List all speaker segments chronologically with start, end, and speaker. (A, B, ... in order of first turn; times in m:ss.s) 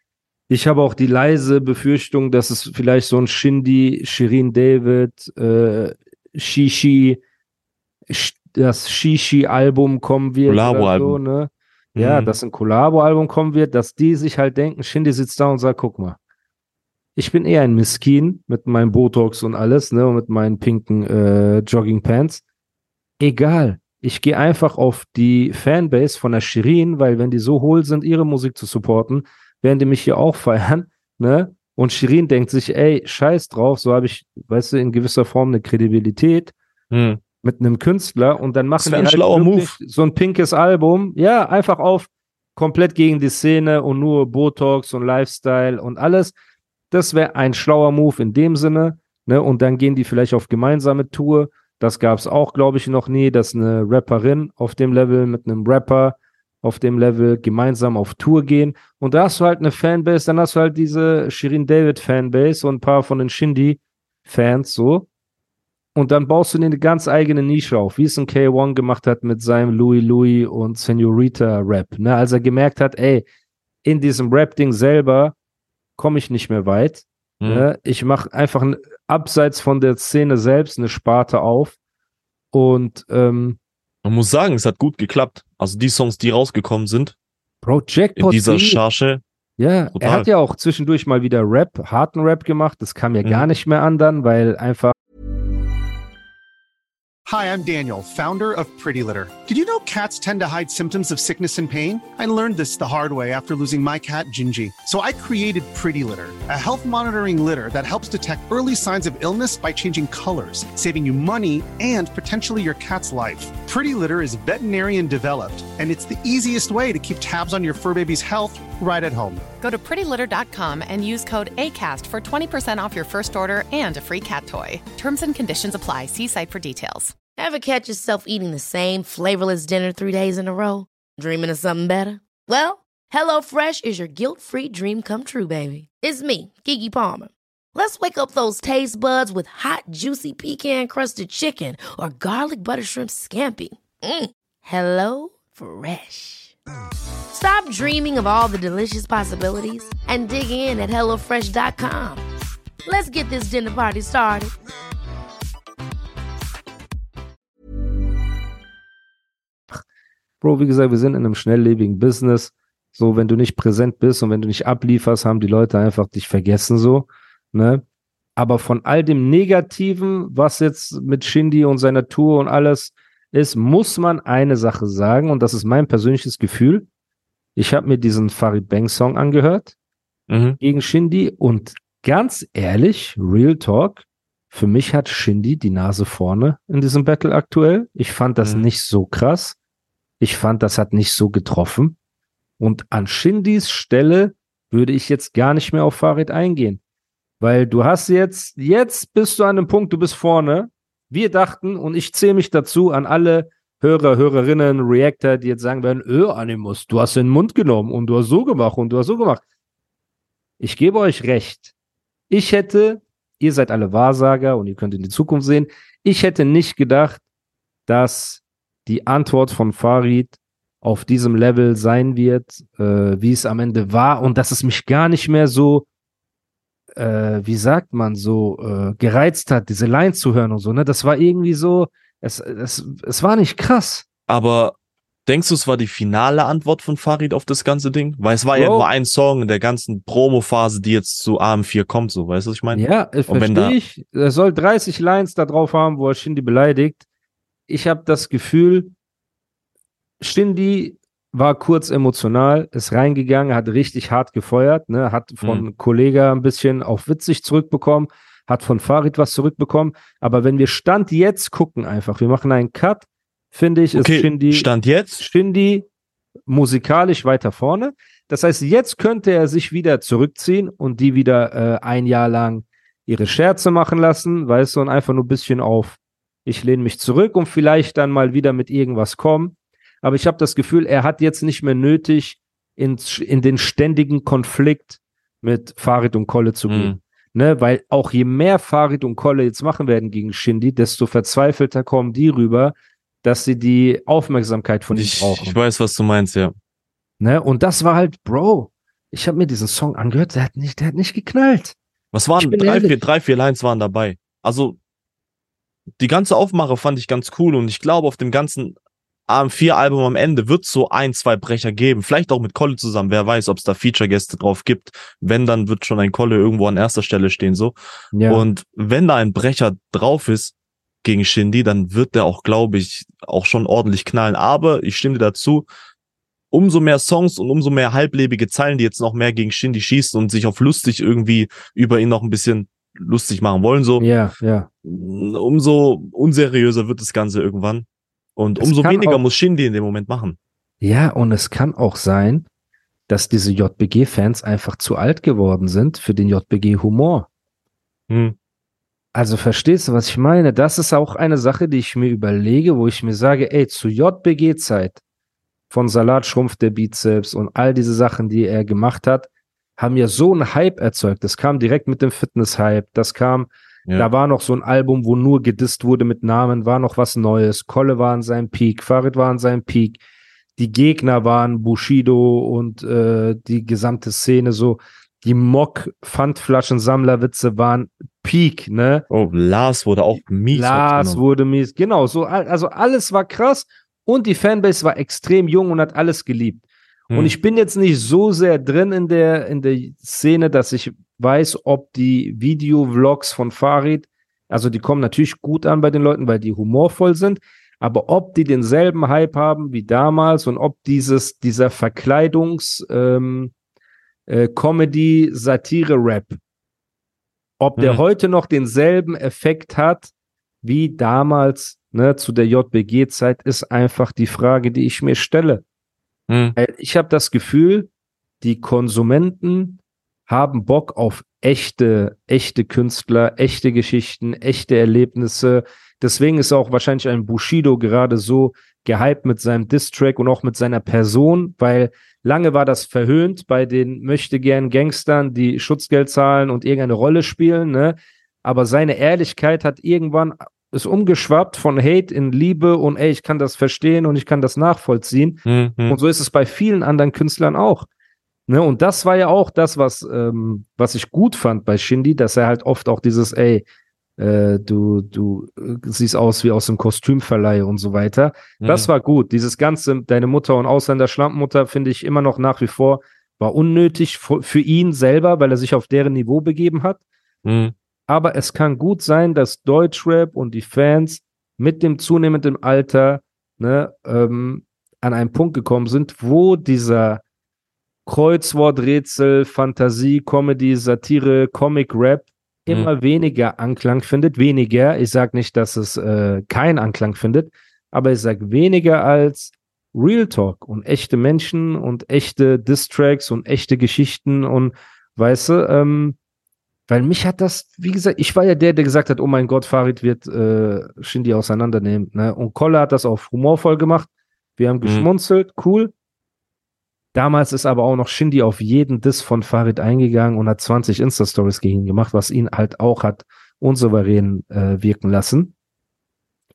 0:00.5-0:07.2 A
0:08.1-0:16.2 A
0:10.5-0:11.2 B
0:12.0-0:12.4 B
0:17.2-0:22.4 A
0:23.2-0:36.5 A
0:36.9-0:37.2 B
0:37.4-0:46.3 A
0:38.8-0:39.8 B
0:46.9-1:05.1 A
1:06.0-1:13.2 A
1:13.8-1:15.4 A
1:16.0-1:21.8 A
1:17.4-1:17.7 B
1:22.5-1:23.6 A
1:24.0-1:27.2 B
1:27.6-1:28.8 A
1:28.2-1:29.2 B
1:29.6-1:35.0 A
1:29.9-1:30.3 B
1:37.3-1:59.4 C
1:59.6-2:07.1 D
2:07.4-2:26.5 E
2:27.3-2:32.2 E
2:32.8-2:34.5 E
2:40.4-2:47.8 A
2:48.4-2:56.9 A
2:57.6-2:59.7 A
3:00.3-3:00.6 B
3:00.6-3:09.6 A
3:10.2-3:12.0 A
3:12.6-3:16.8 A
3:17.4-3:29.4 A
3:30.6-3:31.7 A
3:32.3-3:37.2 A
3:37.9-3:45.9 A
3:47.0-3:54.0 A
3:54.3-4:03.8 B
3:58.6-3:58.9 A
4:02.7-4:07.0 A
4:07.7-4:08.9 A
4:10.2-4:25.9 A
4:23.9-4:25.3 B
4:26.5-4:55.6 A
4:46.7-4:47.0 B
4:54.9-4:56.6 B
4:57.2-5:01.8 A
5:02.1-5:04.8 B
5:02.4-5:03.0 A
5:06.0-5:08.8 B
5:09.3-5:17.8 B
5:18.1-5:18.4 A
5:18.3-5:25.7 B
5:26.5-5:34.0 B
5:34.0-5:34.7 A
5:34.8-5:40.4 B
5:38.6-5:39.2 A
5:40.8-5:42.5 A
5:43.1-5:47.3 A
5:48.1-5:48.4 B
5:49.1-5:55.0 A
5:55.7-6:10.0 A
6:10.6-6:19.1 A
6:19.1-6:21.2 B
6:20.5-6:26.6 A
6:27.1-6:27.4 B
6:27.1-6:43.5 A
6:44.3-6:46.4 A
6:47.6-6:50.1 A
6:50.6-6:55.6 A
6:56.3-6:56.6 B
6:56.6-6:57.9 A
6:58.4-7:27.9 A
7:25.5-7:26.0 B
7:28.5-7:33.6 A
7:34.2-7:47.0 A
7:38.6-7:38.9 B
7:47.4-7:47.8 B
7:48.1-7:57.2 A
7:58.1-8:16.2 A
8:16.9-8:25.9 A
8:27.1-8:35.5 A